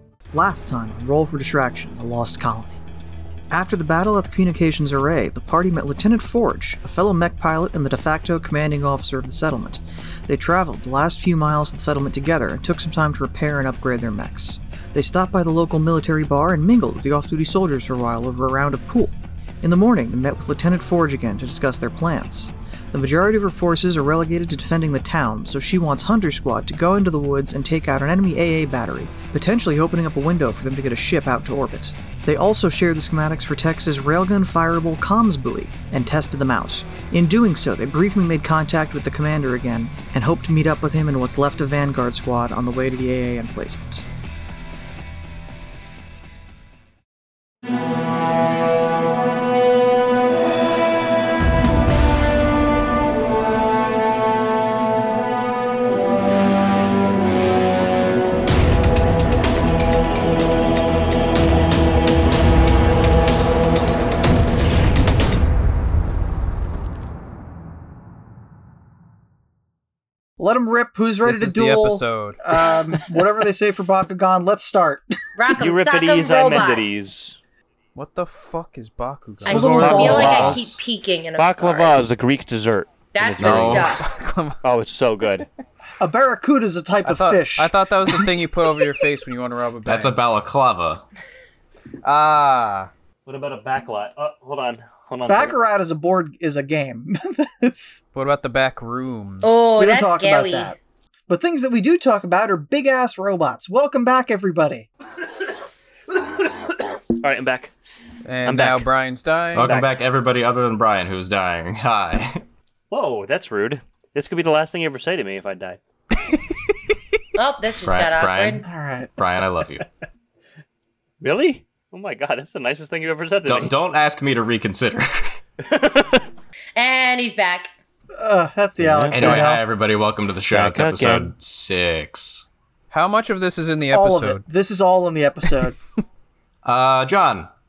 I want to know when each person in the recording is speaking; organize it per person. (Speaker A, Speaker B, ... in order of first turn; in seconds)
Speaker A: 0.3-2.7, 3.5-44.1, 70.4-75.2, 79.5-80.6, 86.0-88.1, 95.3-98.0, 99.8-100.8, 101.3-104.9, 118.7-119.1, 128.2-129.6, 133.9-135.8
Speaker B: 71.2-72.4, 78.0-80.0, 84.0-84.6, 87.0-90.2, 92.0-92.9, 98.1-99.6, 108.2-109.8, 132.9-134.4
Speaker C: 75.4-77.1, 79.5-82.0, 83.1-84.1, 99.4-100.8, 117.4-118.7, 126.8-127.7
Speaker D: 75.5-77.4, 79.8-80.5, 81.4-83.9, 84.6-85.5, 93.3-95.6, 106.2-107.7, 108.5-108.9, 109.5-110.0, 112.9-115.8, 121.2-123.7, 125.6-126.3, 128.8-129.5, 130.5-131.3
Speaker E: 79.8-80.8, 83.4-83.9, 89.9-91.0, 109.5-112.4, 117.8-118.7, 119.2-119.8, 123.5-125.4, 129.1-132.5, 136.6-137.5